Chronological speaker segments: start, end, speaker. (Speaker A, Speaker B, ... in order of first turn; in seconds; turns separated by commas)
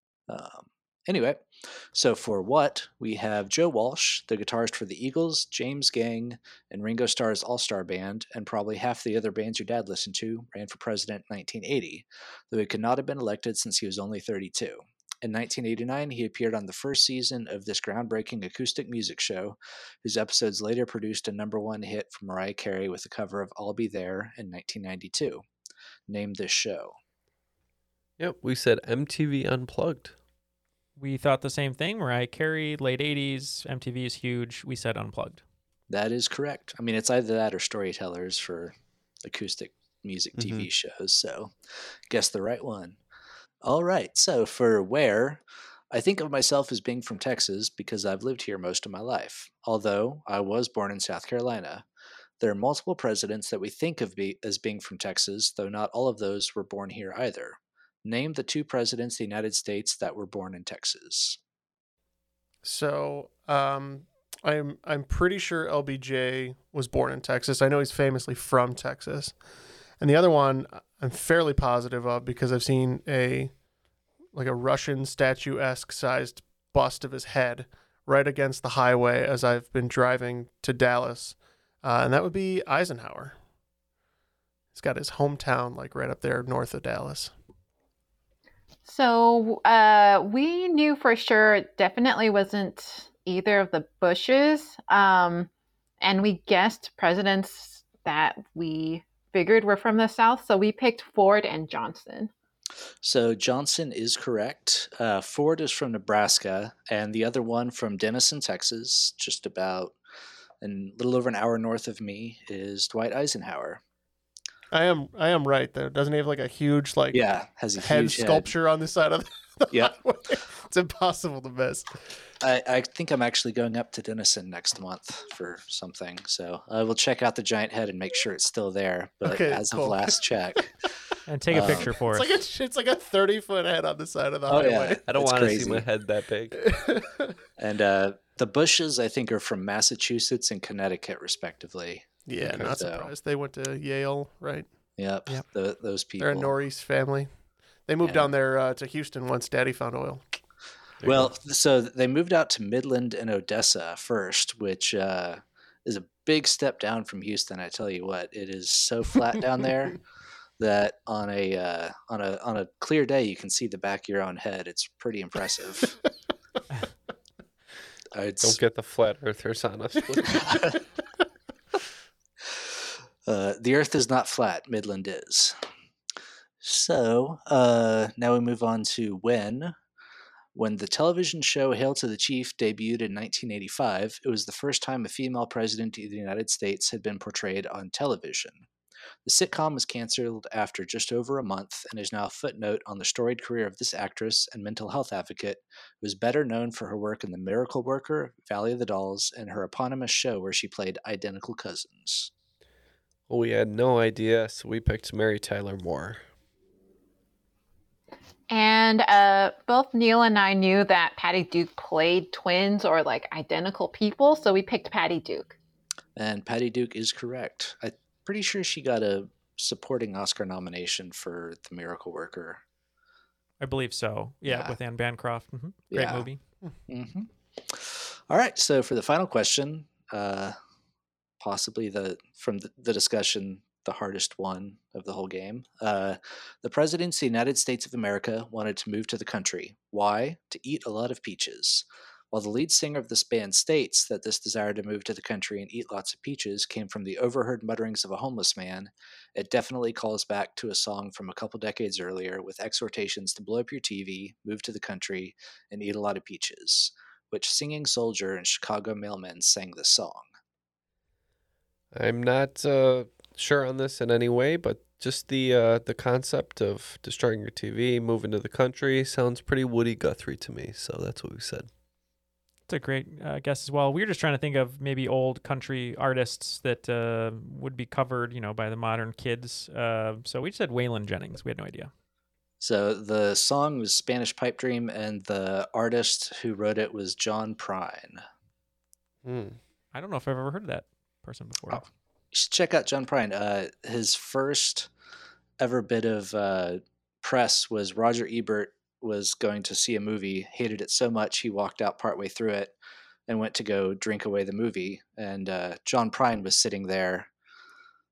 Speaker A: 0.3-25.4, Speaker A: 26.1-26.9, Speaker B: 28.2-30.1, Speaker C: 31.0-35.4, Speaker A: 35.9-38.7, Speaker A: 39.2-41.5, Speaker B: 40.4-40.7, Speaker A: 42.1-43.0, Speaker A: 43.6-51.9, Speaker A: 52.4-61.4, Speaker D: 62.6-69.4, Speaker D: 70.0-73.5, Speaker D: 74.3-83.4, Speaker D: 84.7-87.3, Speaker E: 88.8-95.5, Speaker E: 96.0-102.3, Speaker A: 103.0-110.0, Speaker A: 110.6-113.8, Speaker D: 114.7-117.2, Speaker A: 117.1-118.5, Speaker D: 117.8-122.0, Speaker A: 119.7-120.0, Speaker A: 122.4-130.9, Speaker D: 129.2-130.2, Speaker C: 131.3-132.4, Speaker A: 131.5-131.9, Speaker D: 132.0-135.0, Speaker A: 134.5-135.9, Speaker B: 135.1-136.7, Speaker D: 136.6-137.3, Speaker A: 137.6-143.1, Speaker D: 142.3-144.7, Speaker A: 145.0-146.5, Speaker D: 146.2-147.3, Speaker D: 147.9-150.2, Speaker A: 148.0-148.3, Speaker B: 151.0-151.3, Speaker A: 151.0-160.0, Speaker A: 160.6-166.0, Speaker A: 168.1-168.6, Speaker B: 168.4-170.3, Speaker A: 173.3-175.6, Speaker A: 176.6-179.8, Speaker A: 180.6-188.7, Speaker A: 189.3-202.3, Speaker B: 203.3-206.2, Speaker E: 208.5-215.6, Speaker A: 216.2-222.6, Speaker C: 223.6-226.4, Speaker A: 224.5-224.8, Speaker A: 225.9-226.3, Speaker A: 226.9-230.6, Speaker A: 231.4-260.3, Speaker B: 261.9-271.7, Speaker C: 272.7-281.9, Speaker A: 282.6-288.2, Speaker B: 289.2-289.6, Speaker C: 289.9-291.9, Speaker A: 292.3-294.9, Speaker A: 295.6-302.7, Speaker A: 303.3-307.3